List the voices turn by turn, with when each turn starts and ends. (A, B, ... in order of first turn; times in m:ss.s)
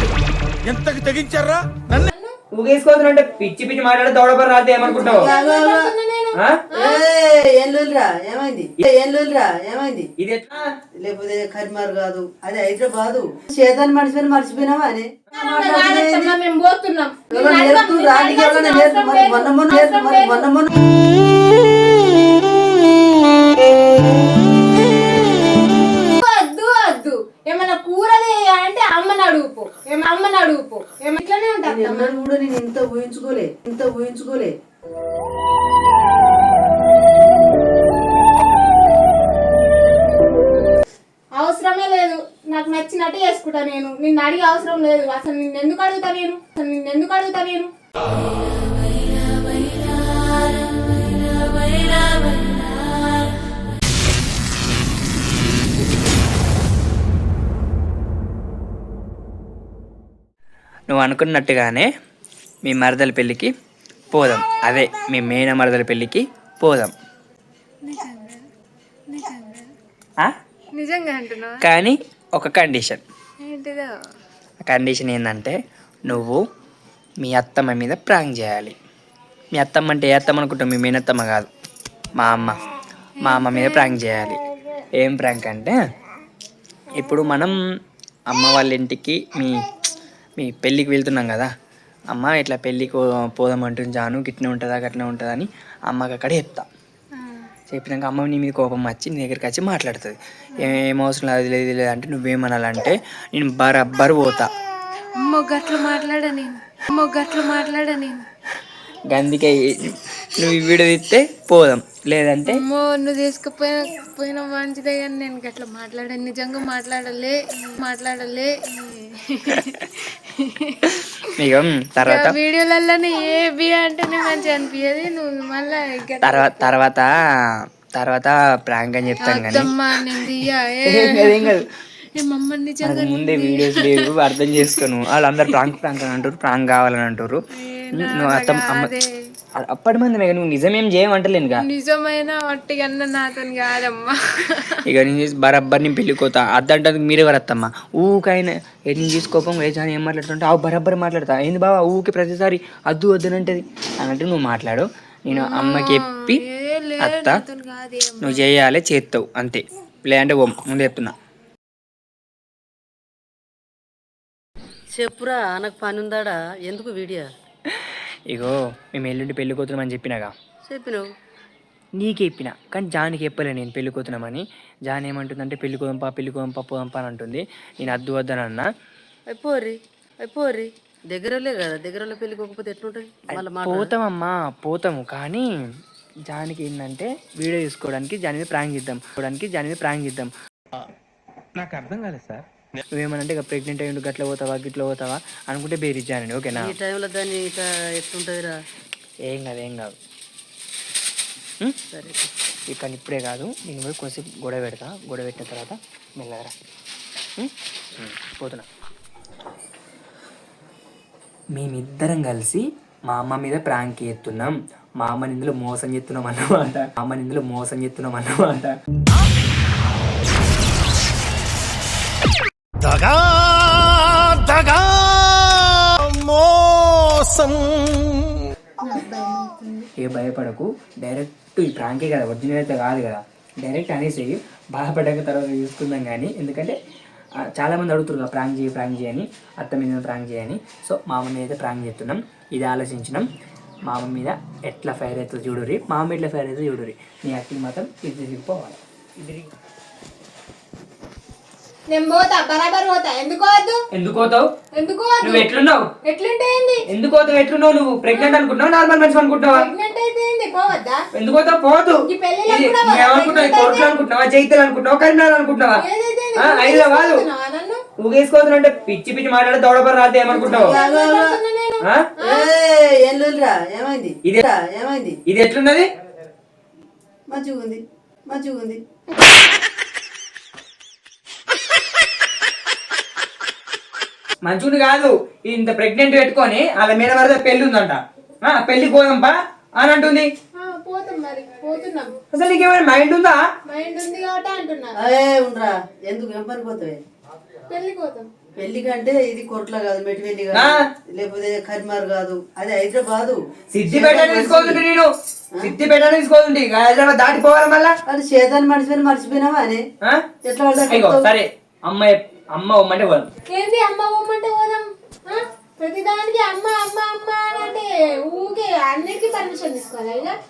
0:00.7-0:02.0 A
0:02.0-0:02.3 B
0:02.5-0:05.3 C
0:04.8-0:05.9 D
0:04.9-0:07.1 B
0:06.4-0:06.6 C
0:06.8-0:10.1 D
0:10.2-0:10.7 C
0:11.0-0:16.3 D
0:15.4-0:20.4 B
0:17.3-0:20.7 D
0:25.9-0:32.2 B
0:31.7-0:34.5 D
0:41.4-0:47.7 B
1:00.9-1:01.9 C
1:02.6-1:03.5 C
1:04.1-1:06.9 C
1:07.9-1:08.4 E
1:09.1-1:09.7 E
1:10.8-1:11.6 E
1:11.6-1:13.0 C
1:13.4-1:14.0 E
1:14.6-1:16.4 C
1:17.2-1:18.8 C
1:19.5-1:21.5 C
1:22.2-1:22.6 C
1:23.2-1:24.0 E
1:23.2-1:24.4 C
1:25.0-1:25.8 C
1:26.9-1:27.6 C
1:28.3-1:29.6 C
1:30.4-1:31.5 C
1:32.1-1:36.7 C
1:37.7-1:44.5 C
1:45.1-1:48.3 E
1:49.0-1:52.6 C
1:52.5-2:01.3 E
2:01.4-2:02.4 C
2:02.0-2:06.7 E
2:06.2-2:07.2 C
2:08.0-2:11.7 C
2:09.2-2:14.8 E
2:12.8-2:18.9 C
2:17.6-2:19.2 E
2:19.6-2:21.6 C
2:21.7-2:24.8 E
2:24.8-2:36.4 C
2:35.3-2:38.4 E
2:37.0-2:37.4 C
2:38.2-2:41.1 C
2:45.0-2:47.3 D
2:47.7-2:50.3 C
2:50.7-2:51.1 D
2:52.0-2:58.7 C
2:59.3-3:03.9 D
3:03.3-3:05.5 C
3:06.3-3:10.3 C
3:11.6-3:12.4 A
3:11.6-3:12.4 C
3:12.9-3:16.7 C
3:16.5-3:18.6 D
3:19.3-3:20.0 C
3:21.9-3:22.3 D
3:22.7-3:26.5 C
3:27.4-3:28.7 C
3:31.5-3:38.8 C
3:42.8-3:48.2 A
3:48.9-3:49.8 B
3:50.0-3:56.8 C
3:57.5-4:03.3 C
4:03.9-4:09.5 C
4:11.9-4:13.8 B
4:13.9-4:14.5 C
4:14.8-4:15.5 B
4:15.2-4:15.9 C
4:16.0-4:16.8 B
4:16.9-4:19.7 C
4:18.1-4:18.4 B
4:19.5-4:21.0 B
4:21.1-4:25.8 C
4:22.1-4:23.9 B
4:25.8-4:27.8 B
4:26.4-4:27.2 C
4:28.0-4:30.8 C
4:30.3-4:31.4 D
4:30.5-4:32.5 B
4:32.2-4:35.2 D
4:35.3-4:35.9 C
4:37.3-4:38.8 D
4:44.4-4:50.3 C
4:50.6-4:52.1 B
4:52.3-4:53.4 C
4:53.7-4:55.0 B
4:55.0-4:57.0 D
4:57.7-4:58.3 B
4:58.6-5:04.8 D
5:00.5-5:00.9 C
5:03.7-5:08.0 C
5:08.1-5:09.8 D
5:10.4-5:11.3 D
5:10.9-5:13.3 C
5:13.5-5:20.4 B